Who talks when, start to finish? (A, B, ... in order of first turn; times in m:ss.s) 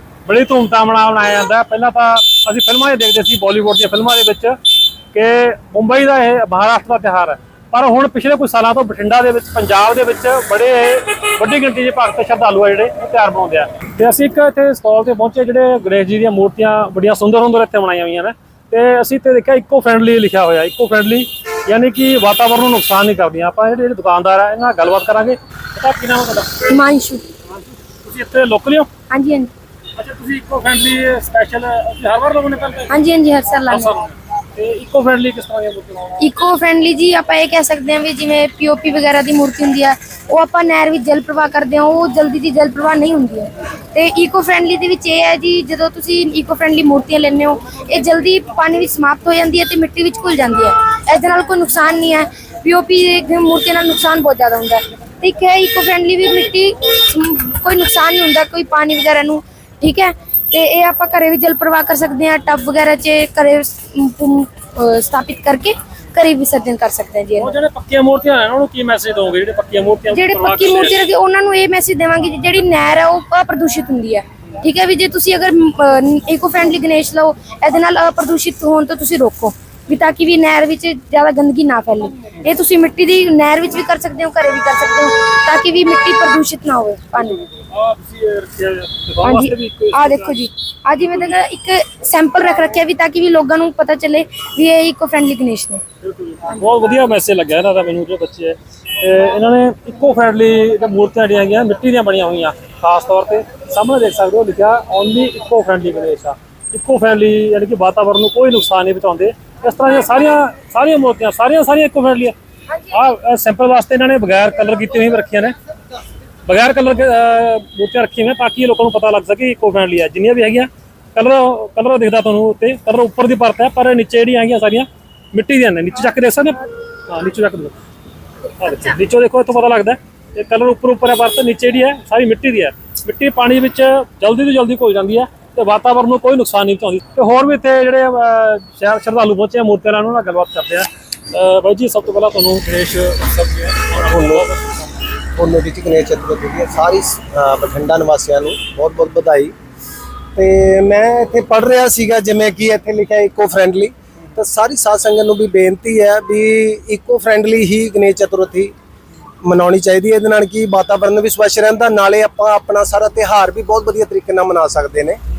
0:00.2-0:04.6 A
0:05.1-0:26.7 A
0:26.7-0:27.2 B
0:27.5-0:28.9 A
0:29.1-0:29.5 B
0:30.0-0:33.0 A
0:32.9-0:33.9 B
0:33.7-0:36.2 A
0:36.2-1:07.5 B
1:07.4-1:11.0 A
1:10.1-1:27.4 B
1:27.5-1:30.4 A
1:29.2-1:35.8 B
1:31.0-1:31.3 A
1:36.0-1:52.4 A
1:52.9-1:55.5 A
1:56.4-2:07.8 A
2:08.6-2:24.9 A
2:24.0-2:24.4 C
2:25.4-2:29.5 C
2:30.4-2:38.7 C
2:39.4-2:45.2 C